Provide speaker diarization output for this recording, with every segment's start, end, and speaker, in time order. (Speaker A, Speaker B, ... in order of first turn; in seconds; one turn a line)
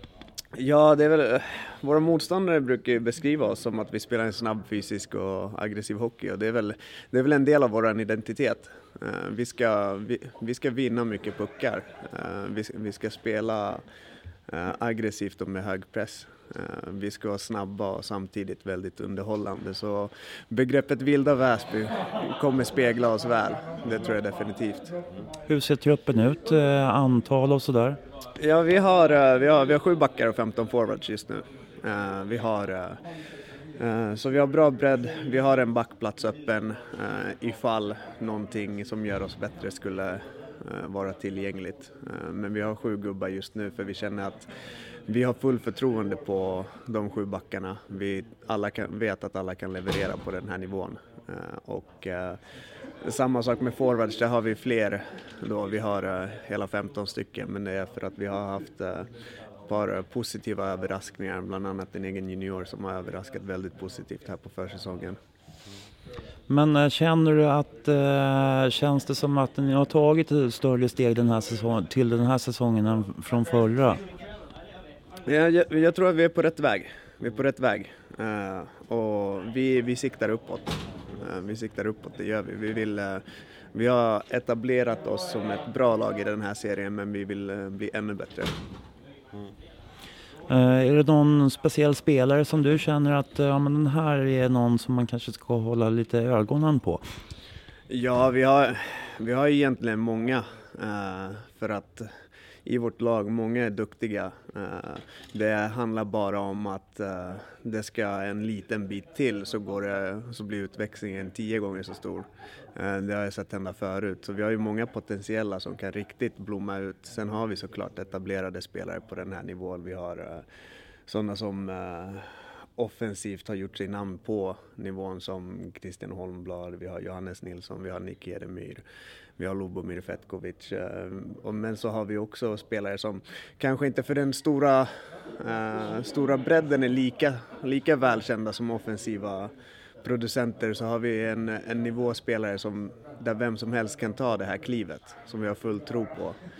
Speaker A: 0.6-13.8
Speaker A: 14.5-24.9
Speaker B: 25.5-28.0
Speaker A: 28.4-33.0
Speaker A: 33.8-44.5
Speaker A: 45.1-52.4
Speaker A: 53.0-59.1
Speaker A: 59.7-65.2
Speaker B: 66.5-74.0
Speaker A: 75.3-83.2
Speaker A: 83.7-88.5
Speaker B: 90.5-97.0
Speaker A: 97.9-102.1
Speaker A: 102.7-120.4
Speaker A: 121.1-122.2
Speaker A: 122.8-128.8
Speaker A: 129.4-134.9
Speaker A: 135.4-139.5
Speaker A: 140.0-146.4